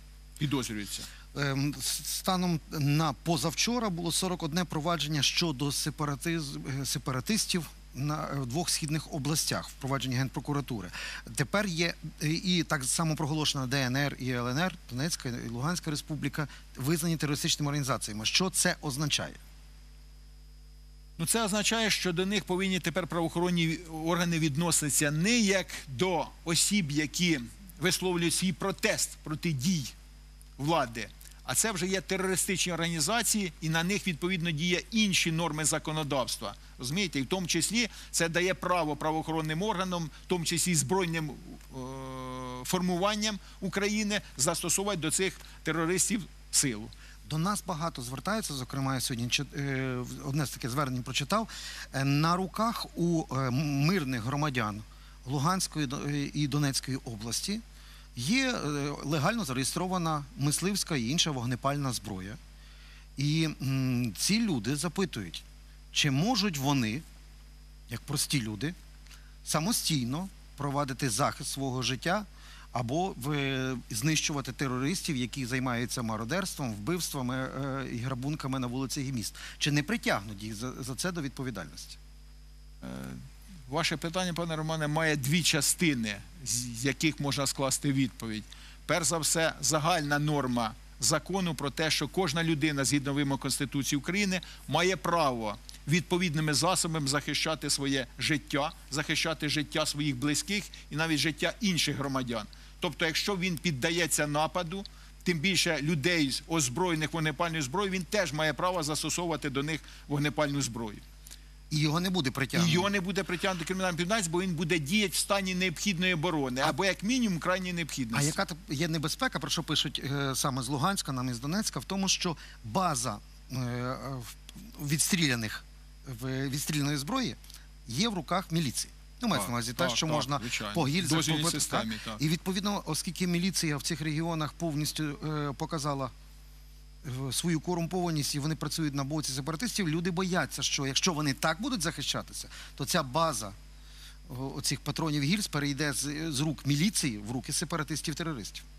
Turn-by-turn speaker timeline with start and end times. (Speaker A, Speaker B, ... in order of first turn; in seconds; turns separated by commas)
Speaker A: 0.4-1.1, Speaker B: 1.3-19.4, Speaker A: 21.2-29.9, Speaker A: 30.6-46.9, Speaker B: 47.2-57.6, Speaker B: 58.1-62.4, Speaker B: 63.2-67.0, Speaker B: 67.9-68.8, Speaker B: 69.5-82.0, Speaker A: 82.8-111.0, Speaker B: 111.7-112.9, Speaker A: 112.5-118.4, Speaker B: 118.1-136.1, Speaker A: 129.3-132.2, Speaker B: 137.0-143.6, Speaker B: 144.3-148.7